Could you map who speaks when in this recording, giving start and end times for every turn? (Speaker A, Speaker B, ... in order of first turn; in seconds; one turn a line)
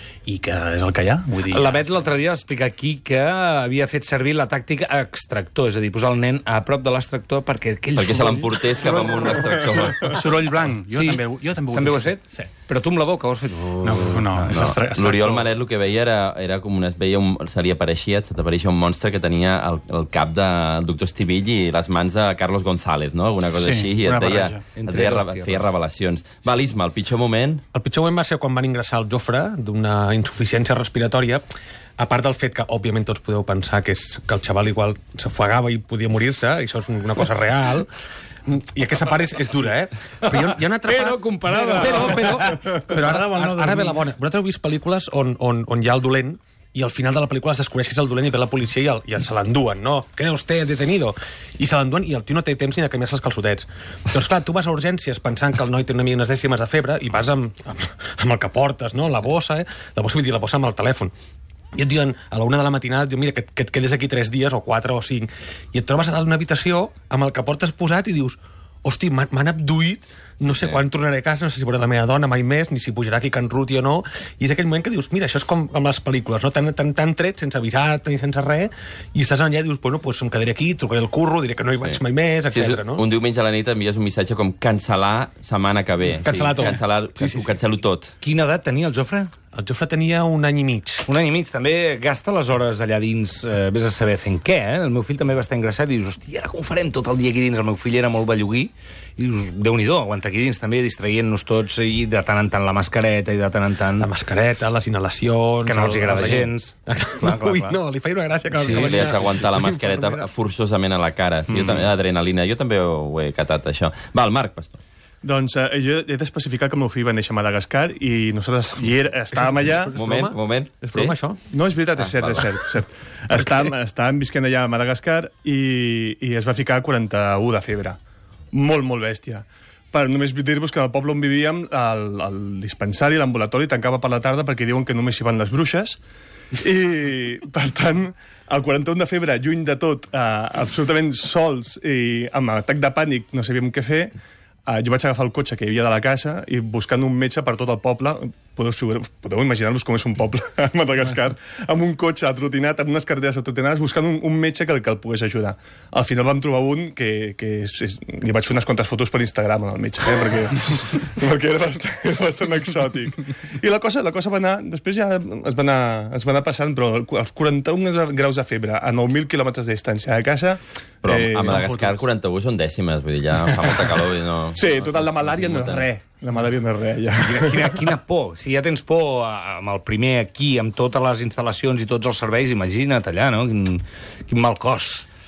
Speaker A: 0.3-1.8
Speaker B: 1.5-8.7
Speaker C: 8.0-10.2
Speaker A: 10.1-12.5
Speaker B: 10.9-14.7
Speaker A: 13.8-15.5
Speaker C: 14.5-27.6
Speaker A: 23.5-24.7
Speaker B: 24.7-25.7
Speaker D: 27.7-31.5
Speaker D: 32.0-37.9
Speaker D: 38.5-61.1
Speaker B: 40.2-42.5
Speaker A: 42.3-44.0
Speaker D: 61.8-83.0
Speaker C: 81.8-88.1
Speaker D: 86.2-87.5
Speaker B: 88.2-89.3
Speaker D: 89.5-91.0
Speaker B: 91.1-104.1
Speaker D: 104.0-110.3
Speaker B: 105.7-107.8
Speaker B: 108.6-109.0
Speaker C: 108.8-114.8
Speaker E: 115.2-120.0
Speaker D: 119.3-121.4
Speaker C: 120.0-121.2
Speaker E: 121.5-128.0
Speaker C: 122.0-122.5
Speaker E: 128.5-136.0
Speaker E: 136.5-144.2
Speaker E: 144.7-172.0
Speaker C: 171.0-175.9
Speaker E: 174.6-177.8
Speaker B: 177.2-185.1